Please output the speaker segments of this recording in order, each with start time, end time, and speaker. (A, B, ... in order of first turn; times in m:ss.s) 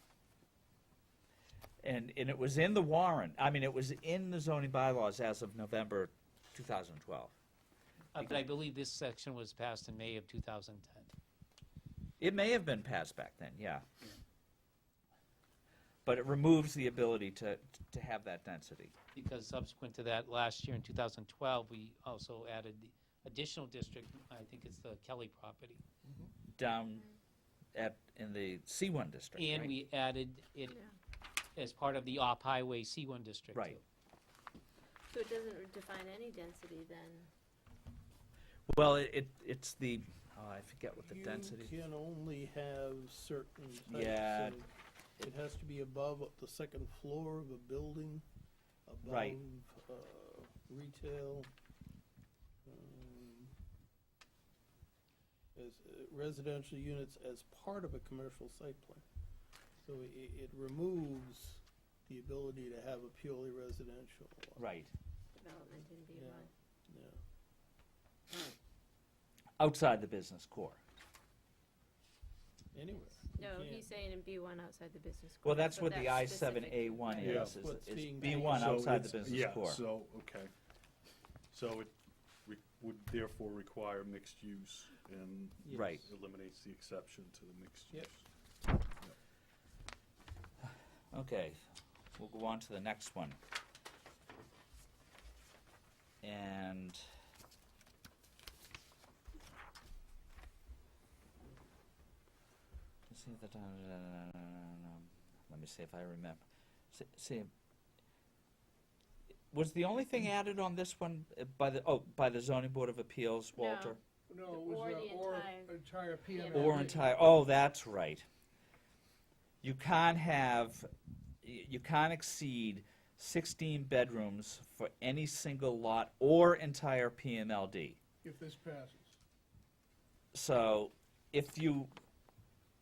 0:01.8-0:07.3 A
0:08.1-0:11.1 B
0:12.2-0:13.8 A
0:16.0-0:18.9 A
0:19.1-0:25.8 B
0:26.0-0:26.3 C
0:26.6-0:27.1 A
0:27.8-0:29.7 A
0:29.4-0:30.8 B
0:30.7-0:31.0 D
0:31.6-0:33.8 B
0:35.1-0:37.3 D
0:38.7-0:41.7 A
0:41.0-0:48.2 E
0:43.9-0:44.6 A
0:48.9-0:51.5 E
0:49.0-0:49.4 A
0:52.6-0:53.5 E
0:55.6-0:59.0 E
0:59.8-1:04.6 E
1:04.6-1:04.9 A
1:05.3-1:06.5 D
1:06.1-1:07.2 E
1:09.6-1:10.8 A
1:12.7-1:13.9 E
1:13.4-1:17.5 D
1:15.4-1:19.8 A
1:17.1-1:18.9 E
1:17.2-1:17.5 F
1:18.5-1:20.5 F
1:21.5-1:28.3 F
1:25.6-1:26.0 E
1:25.7-1:26.1 A
1:31.1-1:31.6 A
1:32.2-1:33.4 A
1:36.2-1:37.0 A
1:43.1-1:47.5 A
1:49.5-1:54.0 A
1:53.6-1:54.0 D
1:54.3-1:57.5 C
1:54.5-1:55.7 D
1:56.3-1:57.1 D
1:56.5-1:58.2 A
1:59.6-2:00.9 A
2:01.4-2:08.0 A
2:08.2-2:09.2 C
2:10.3-2:11.9 A